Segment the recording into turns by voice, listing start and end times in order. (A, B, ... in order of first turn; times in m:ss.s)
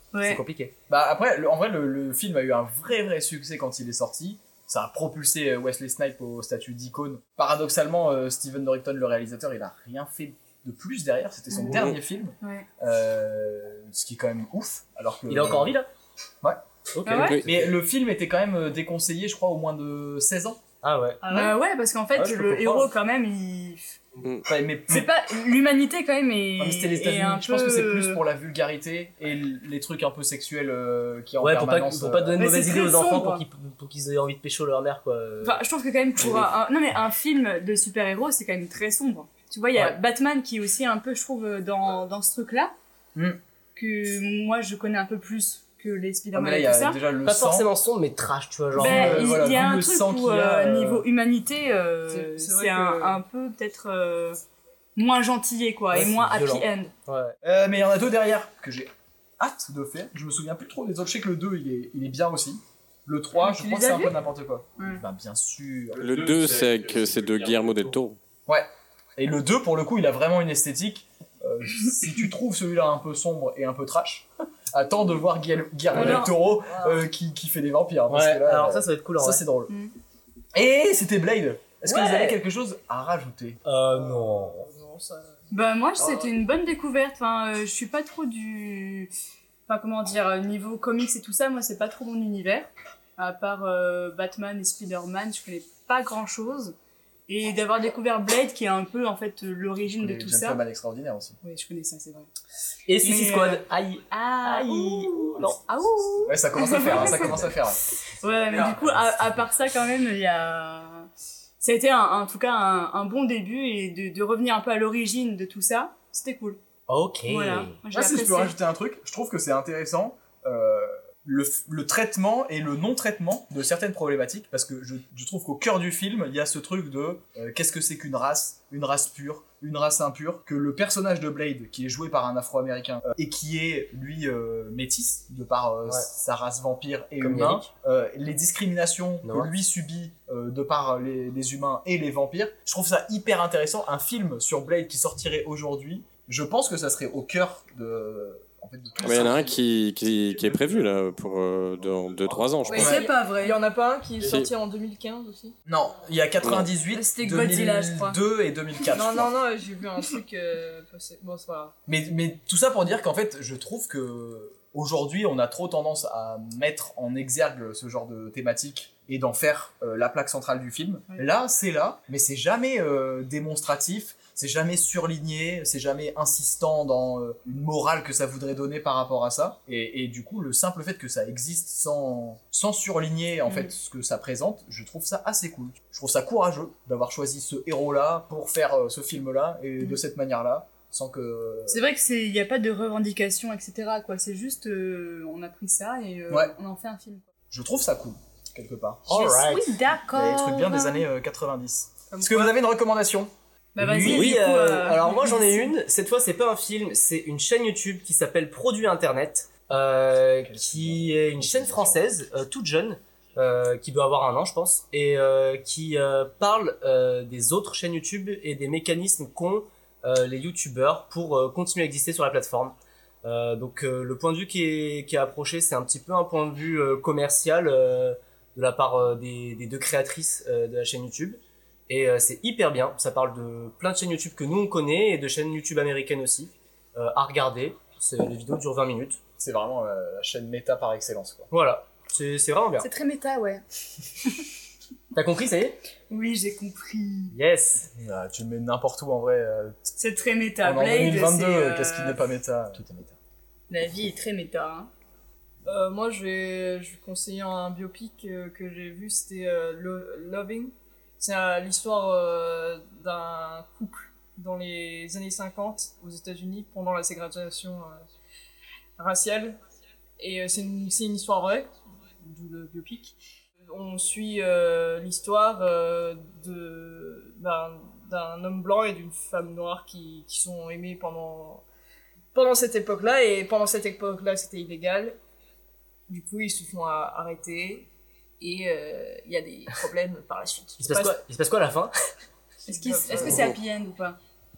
0:00.1-0:00.4 A
0:00.2-0:00.7 B
0:00.9-0:15.8 C
0:11.5-0:11.8 A
0:11.7-0:12.0 D
0:12.4-0:12.7 A
0:15.3-0:15.9 B
0:17.0-0:17.6 B
0:17.0-0:17.4 A
0:17.3-0:20.6 C
0:20.8-0:21.2 B
0:21.2-0:21.5 E
0:21.3-0:24.0 A
0:22.1-0:22.9 B
0:24.4-0:25.1 C
0:24.9-0:28.2 A
0:26.6-0:32.4 C
0:31.4-0:35.6 B
0:32.4-0:33.4 A
0:35.4-0:42.7 A
0:43.7-0:47.0 A
0:46.3-0:47.7 C
0:47.2-0:49.3 B
0:48.7-0:51.0 C
0:48.8-0:54.4 A
0:52.1-0:53.2 E
0:55.0-0:56.9 A
0:55.9-0:57.4 B
0:57.4-1:06.2 C
1:03.4-1:04.2 A
1:05.9-1:08.2 D
1:08.5-1:19.7 C
1:15.9-1:16.3 A
1:16.5-1:17.0 E
1:18.1-1:19.4 B
1:20.5-1:23.6 C
1:21.8-1:22.4 B
1:23.6-1:24.7 B
1:23.9-1:25.4 E
1:25.5-1:29.1 A
1:29.7-1:36.7 A
1:37.3-1:40.6 A
1:40.0-1:41.4 C
1:41.4-1:42.3 A
1:42.9-1:45.6 B
1:43.0-1:47.5 A
1:46.2-1:47.8 C
1:46.9-1:47.3 B
1:48.2-1:51.1 A
1:51.6-1:56.6 A
1:56.9-1:57.7 B
1:57.2-1:58.6 A
1:57.9-2:29.6 C
2:17.2-2:17.7 B
2:19.2-2:19.5 B
2:29.0-2:32.9 D
2:32.6-2:35.5 E
2:32.7-2:33.6 A
2:32.7-2:33.0 C
2:34.2-2:34.5 D
2:35.6-2:39.3 C
2:36.4-2:36.7 D
2:36.9-2:38.2 A
2:38.9-2:41.7 E
2:41.8-3:11.8 C
3:03.5-3:03.7 A
3:11.7-3:17.3 A
3:17.5-3:19.2 C
3:19.1-3:19.7 B
3:19.1-3:21.1 A
3:20.1-3:23.3 C
3:22.1-3:22.6 A
3:23.7-3:25.7 A
3:23.8-3:59.2 B
3:24.0-3:24.3 C
3:30.4-3:32.0 C
3:59.4-4:01.5 C
4:01.5-4:02.9 B
4:02.8-4:03.6 A
4:05.1-4:05.8 B
4:06.1-4:07.4 A
4:07.3-4:07.9 B
4:08.0-4:09.9 C
4:10.0-4:12.2 A
4:10.6-4:13.1 C
4:13.7-4:14.9 A
4:15.6-4:28.0 E
4:29.0-4:29.6 E
4:30.2-4:33.2 E
4:33.7-4:41.6 E
4:42.3-4:45.2 E
4:46.1-4:47.9 E
4:48.4-4:51.2 E
4:50.8-4:51.9 B
4:52.7-4:54.2 A
4:52.7-4:53.4 E